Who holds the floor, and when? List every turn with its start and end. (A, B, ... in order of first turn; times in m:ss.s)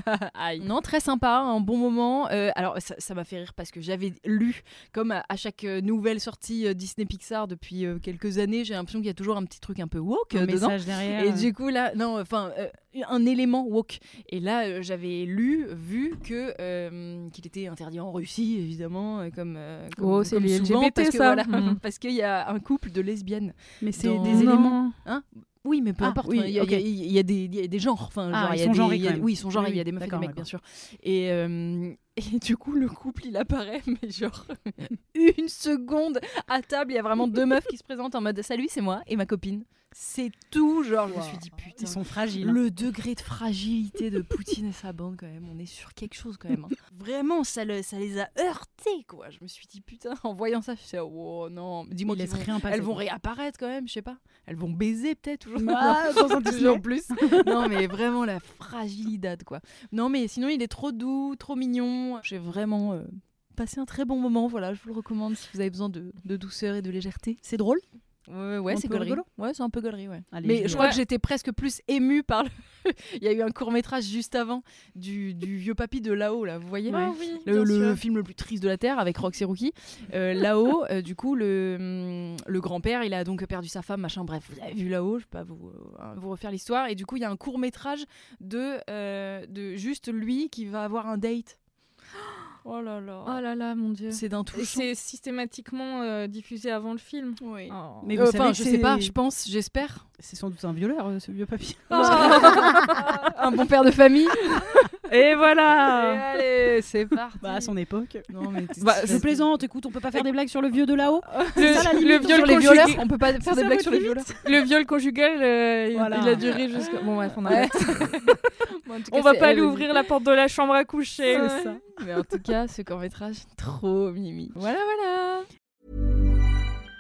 0:00.3-0:00.6 A
0:00.6-1:07.4 B
0:10.3-0:11.5 C
0:20.0-0:21.8 A
0:23.8-0:25.0 C
0:24.2-0:24.9 A
0:26.0-0:26.9 C
0:28.3-0:30.5 C
0:41.1-0:42.6 C
0:52.1-0:53.0 C
0:55.6-0:57.7 C
1:07.4-1:07.8 C
1:08.3-1:31.6 B
1:08.7-1:09.3 C
1:10.3-1:10.9 C
1:10.7-1:11.0 A
1:16.9-1:18.0 A
1:32.6-1:33.4 B
1:33.2-1:38.2 A
1:34.1-1:34.9 B
1:37.4-1:40.1 B
1:38.0-1:39.2 C
1:40.2-1:43.1 C
1:41.9-1:43.2 A
1:41.9-1:44.5 B
1:45.0-1:46.4 A
1:45.9-1:47.7 B
1:47.4-1:48.3 C
1:48.3-1:49.5 B
1:48.8-1:49.3 A
1:49.0-1:53.1 C
1:51.2-1:54.4 B
1:51.6-1:58.5 A
1:53.8-1:54.2 C
1:55.9-1:56.5 C
1:57.4-1:58.3 B
1:58.8-2:00.0 B
1:59.1-2:01.8 A
2:01.3-2:01.8 C
2:01.4-2:05.5 B